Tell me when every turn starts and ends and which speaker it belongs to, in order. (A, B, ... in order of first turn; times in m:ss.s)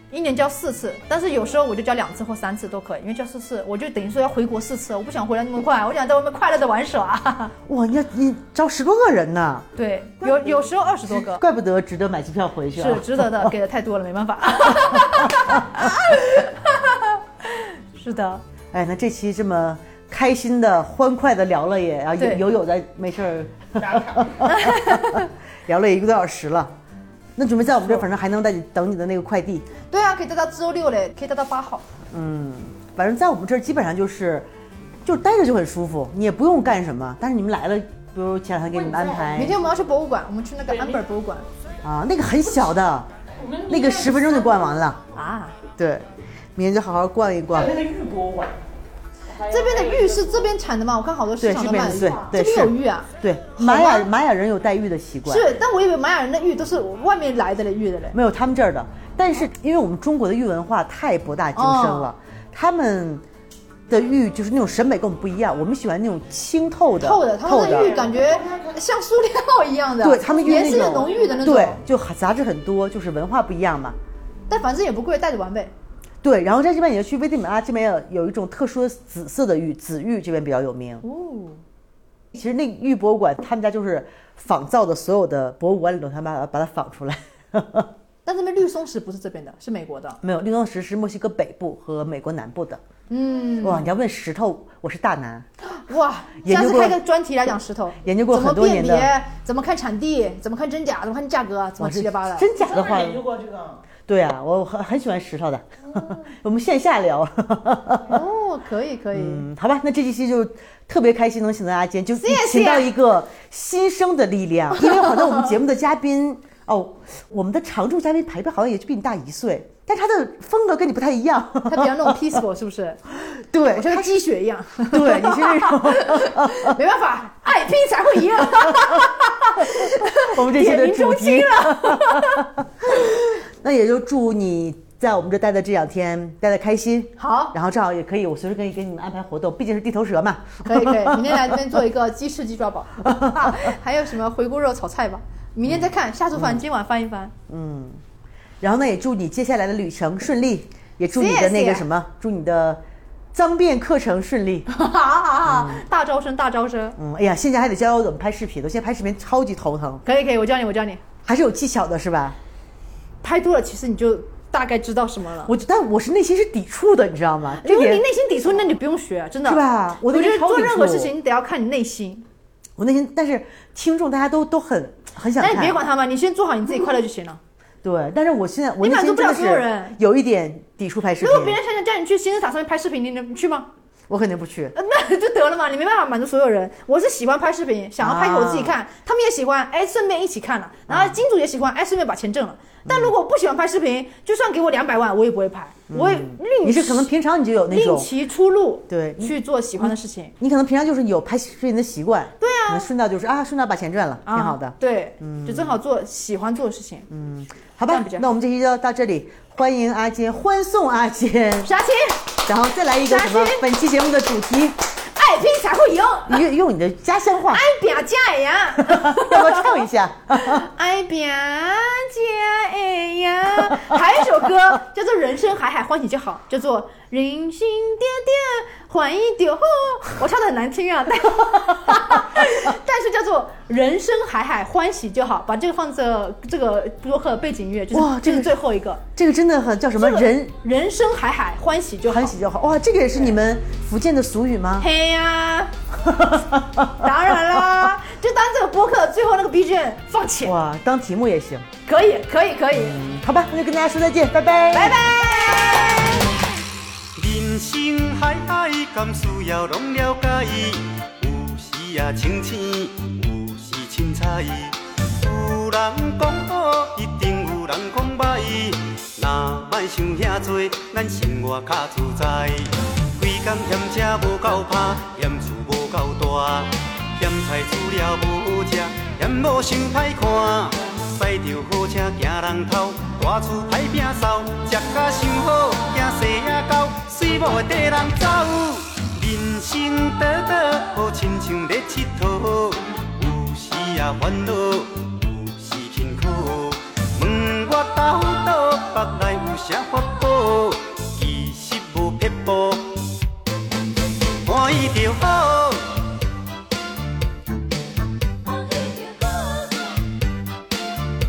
0:00.1-0:07.5 A
0:07.7-0:09.7 B
0:09.8-0:11.4 A
0:10.2-0:13.5 B
0:12.8-0:18.4 A
0:14.7-0:15.4 B
0:18.7-0:26.7 B
0:22.2-0:22.4 A
0:23.8-0:24.3 C
0:24.4-0:25.3 A
0:27.4-0:29.6 B
0:29.9-0:31.8 A
0:32.1-0:34.5 B
0:35.0-0:39.6 B
0:38.7-0:39.5 C
0:39.3-0:41.4 A
0:40.7-0:41.0 C
0:41.8-0:43.1 B
0:43.3-0:45.0 C
0:43.7-0:45.0 B
0:45.1-0:45.6 A
0:45.8-0:47.8 B
0:47.5-0:48.6 C
0:49.3-0:50.5 C
0:49.5-0:54.1 A
0:51.4-0:55.5 B
0:51.6-0:52.3 C
0:55.3-0:58.1 A
0:58.1-1:03.2 B
1:01.5-1:02.1 A
1:03.9-1:08.0 B
1:07.0-1:11.8 A
1:07.5-1:08.8 C
1:10.0-1:14.0 B
1:10.2-1:11.7 C
1:14.5-1:15.7 A
1:16.2-1:21.0 B
1:21.0-1:21.6 A
1:22.3-1:27.9 B
1:28.2-1:30.2 A
1:30.2-1:32.8 B
1:33.1-1:33.9 A
1:33.6-1:35.4 B
1:35.6-1:42.5 A
1:36.4-1:37.0 B
1:38.0-1:39.1 B
1:41.8-1:43.2 B
1:42.5-1:43.8 C
1:44.0-1:48.2 B
1:48.1-1:49.4 A
1:49.1-2:02.2 B
1:52.2-1:52.9 A
1:54.9-1:55.5 A
2:01.7-2:03.0 A
2:03.1-2:04.2 B
2:03.7-2:12.5 A
2:04.9-2:06.8 B
2:08.4-2:09.0 B
2:09.6-2:21.6 B
2:17.2-2:17.5 A
2:20.6-2:27.3 A
2:23.0-2:23.7 B
2:25.7-2:26.6 B
2:27.5-2:28.0 B
2:28.6-2:32.8 B
2:31.1-2:31.8 A
2:33.3-2:34.7 B
2:34.7-2:37.0 A
2:35.4-2:35.8 B
2:37.0-2:40.0 B
2:40.0-2:41.0 A
2:41.2-2:42.4 B
2:43.2-2:45.5 A
2:45.4-2:48.0 B
2:47.6-2:52.2 A
2:49.4-2:51.1 B
2:52.8-2:55.8 B
2:55.4-2:57.4 A
2:57.8-3:01.6 B
2:58.8-3:00.0 A
3:01.2-3:03.7 A
3:04.1-3:04.7 B
3:04.7-3:17.1 A
3:08.0-3:08.7 B
3:10.9-3:11.2 B
3:12.8-3:13.1 B
3:15.9-3:18.1 B
3:17.7-3:20.3 A
3:18.9-3:25.8 B
3:22.4-3:22.9 A
3:24.2-3:27.1 A
3:27.1-3:31.7 B
3:27.9-3:28.2 A
3:31.6-3:32.3 A
3:32.4-3:34.8 B
3:33.0-3:33.6 A
3:35.0-3:36.4 A
3:36.3-3:37.7 B
3:37.5-3:39.8 A
3:38.8-3:40.6 B
3:40.3-3:59.0 A
3:43.6-3:44.0 B
3:52.1-3:52.6 B
3:57.9-3:58.6 B
3:59.1-4:00.5 B
4:00.0-4:02.3 A
4:02.0-4:04.9 B
4:04.8-4:05.7 A
4:06.0-4:07.9 B
4:07.0-4:10.6 A
4:10.4-4:11.7 B
4:11.8-4:13.0 A
4:12.7-4:16.0 B
4:14.7-4:16.3 A
4:17.1-5:03.1 D
5:04.4-5:06.0 D